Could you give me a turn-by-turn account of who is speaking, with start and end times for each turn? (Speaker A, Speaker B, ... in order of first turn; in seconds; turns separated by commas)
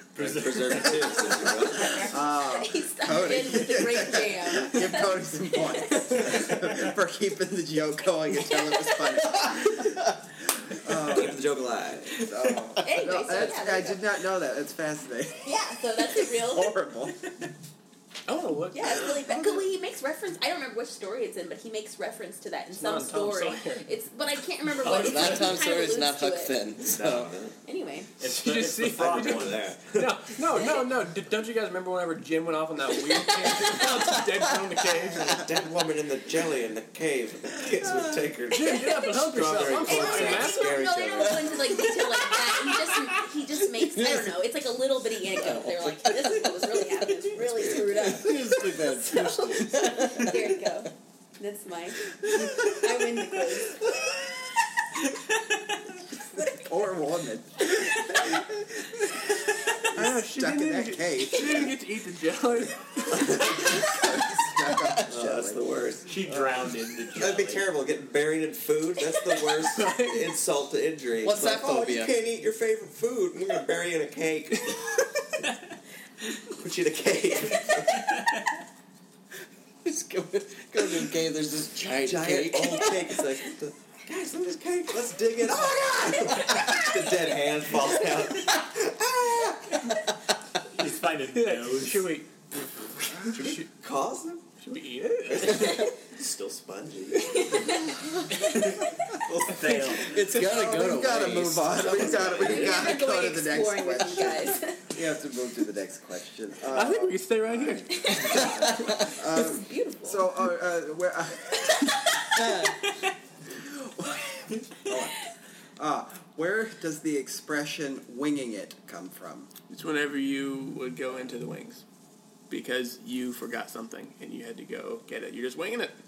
Speaker A: 0.2-1.2, Speaker B: 0.2-2.1, Speaker C: 0.9-6.5, Speaker D: 1.7-9.9, Speaker C: 8.3-9.5, Speaker D: 10.6-11.5, Speaker B: 10.9-12.6, Speaker D: 12.1-15.6, Speaker C: 12.8-14.0, Speaker C: 15.4-16.8, Speaker D: 16.2-17.2, Speaker E: 18.3-19.1, Speaker C: 18.7-26.6, Speaker D: 19.1-19.7, Speaker E: 22.7-23.9, Speaker A: 24.8-25.6, Speaker F: 24.9-27.3, Speaker B: 26.8-27.6, Speaker C: 27.6-28.1, Speaker A: 28.2-29.6, Speaker E: 28.2-35.4, Speaker B: 28.8-30.1, Speaker C: 33.1-34.0, Speaker B: 35.3-41.7, Speaker D: 37.8-38.2, Speaker E: 38.5-40.8, Speaker C: 38.6-53.9, Speaker F: 43.9-44.3, Speaker F: 45.3-46.4, Speaker F: 47.3-50.6, Speaker C: 56.4-56.6, Speaker D: 56.6-61.8, Speaker E: 59.9-63.8, Speaker D: 63.2-65.7, Speaker B: 65.1-66.2, Speaker A: 66.1-67.7, Speaker B: 67.1-75.2, Speaker E: 69.7-70.3, Speaker F: 71.2-72.1, Speaker B: 76.4-78.2, Speaker A: 78.1-78.4, Speaker F: 79.8-83.1, Speaker B: 81.9-89.8, Speaker A: 90.7-92.1, Speaker E: 91.3-92.3, Speaker E: 93.2-93.7, Speaker B: 93.3-94.4, Speaker E: 94.6-95.8, Speaker B: 95.4-97.8, Speaker C: 97.4-97.9, Speaker B: 98.4-100.0, Speaker A: 99.5-100.1, Speaker F: 100.0-102.5, Speaker D: 100.1-112.7, Speaker B: 101.8-102.8, Speaker C: 102.4-104.8, Speaker E: 106.7-108.5, Speaker C: 108.0-110.3, Speaker C: 111.6-112.7, Speaker D: 113.5-115.3, Speaker D: 115.8-119.5, Speaker E: 119.7-121.8, Speaker E: 122.5-126.0